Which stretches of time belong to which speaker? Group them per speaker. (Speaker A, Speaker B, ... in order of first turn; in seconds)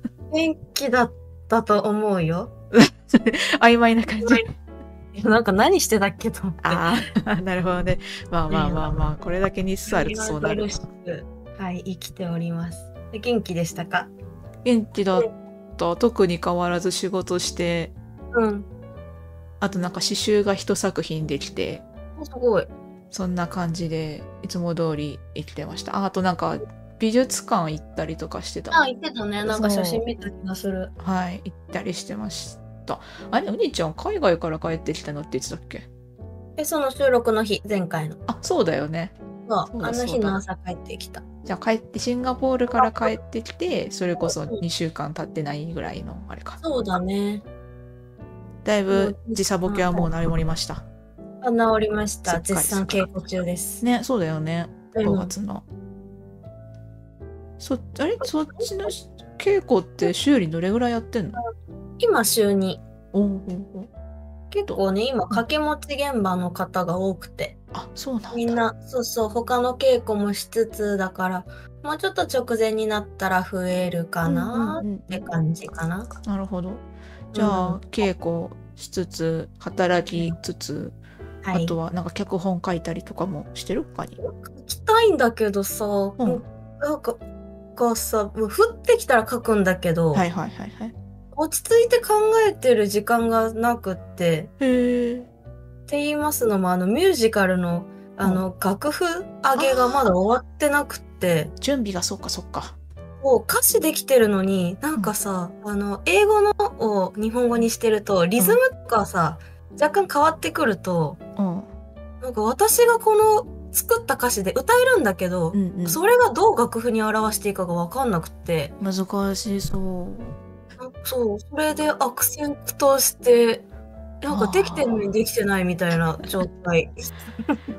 Speaker A: 0.3-2.5, 5.1-6.8, 8.5-8.9, 9.9-14.1, 18.3-18.7, 22.2-22.7, 28.7-30.9, 36.6-38.2, 39.5-41.2, 42.7-43.1, 44.2-44.6, 46.6-47.4, 48.9-50.1, 51.4-53.8, 54.9-55.3, 62.0-62.8, 64.5-67.5, 68.3-76.1, 77.3-77.8, 81.4-81.8, 84.2-87.2, 87.8-90.2, 91.3-94.5, 95.9-101.5, 103.2-111.2, 112.2-118.7, 120.8-123.7, 124.2-127.6
Speaker B: 2.7-4.5, 6.6-10.8, 14.6-17.9, 19.6-21.8, 23.1-28.8, 29.4-30.0, 31.0-35.9, 38.3-39.1, 39.7-40.4, 41.5-46.6, 48.6-50.8, 52.3-53.1, 53.8-55.6, 57.6-61.4, 63.1-63.9, 64.7-65.4, 67.7-68.6, 74.2-75.3, 76.2-81.0, 81.5-84.2, 90.1-90.9, 94.6-95.3, 99.5-100.0, 101.6-102.8, 111.4-111.7, 115.5-116.0, 118.8-120.3, 124.3-125.1